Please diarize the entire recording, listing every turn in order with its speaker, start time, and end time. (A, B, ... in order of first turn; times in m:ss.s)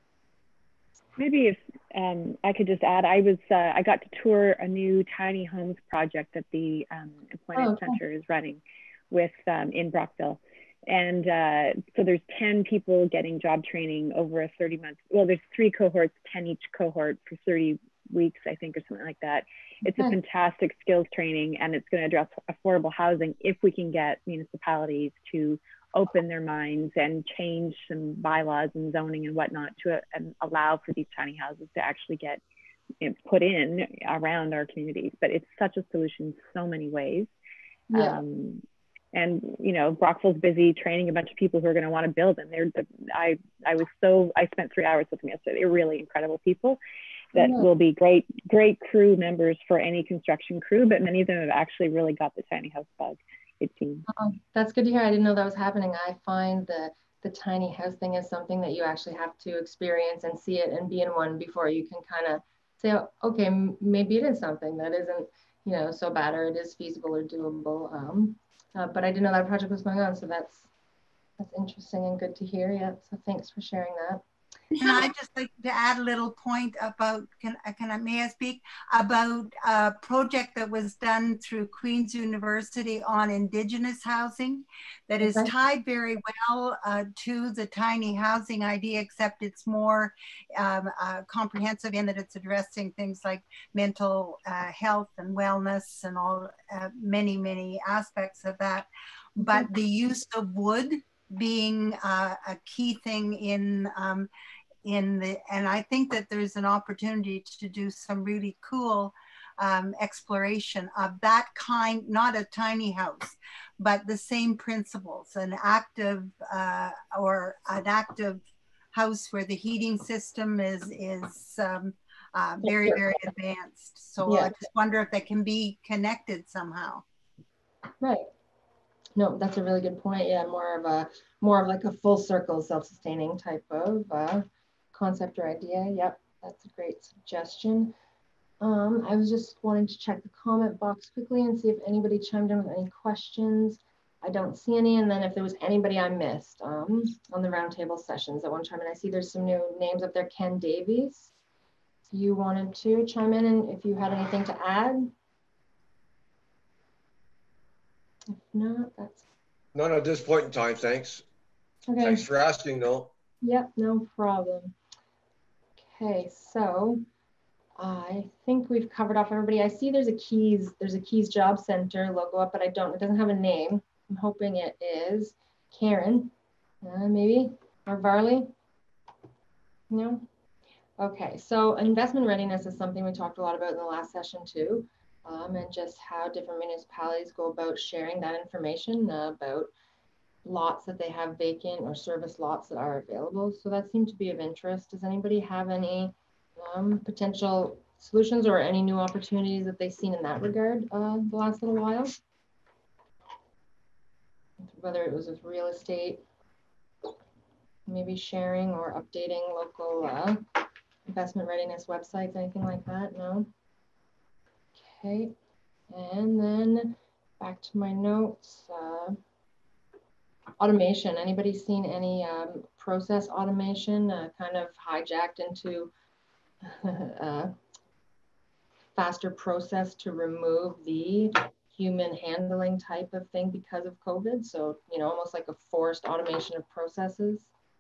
0:01.2-0:32.4 A
0:07.6-0:08.0 B
0:19.9-0:20.2 B
0:33.0-0:37.3 A
0:37.9-0:38.2 B
0:37.9-0:46.8 A
0:47.3-0:54.1 A
0:47.4-0:47.7 B
0:54.1-1:10.7 B
1:11.4-1:14.2 B
1:14.8-1:44.3 C
1:25.2-1:25.5 B
1:39.4-1:39.7 B
1:44.8-1:58.4 C
1:58.9-2:07.0 C
2:02.6-2:03.2 B
2:04.3-2:04.5 B
2:08.0-2:08.3 B
2:09.2-2:17.9 B
2:18.6-2:31.3 B
2:32.1-2:35.1 B
2:38.3-2:39.2 B
2:39.8-2:41.2 D
2:41.9-2:42.2 B
2:42.0-2:43.1 D
2:43.4-2:44.7 B
2:45.8-2:47.0 B
2:47.8-2:58.5 B
2:59.9-3:00.2 B
3:01.0-3:09.7 B
3:10.4-3:22.2 B
3:24.7-3:26.2 B
3:27.9-3:30.4 B
3:31.1-3:33.5 B
3:34.8-3:35.3 B
3:35.9-3:39.2 B
3:40.6-3:45.9 B
3:46.6-3:47.5 B
3:49.0-3:57.5 B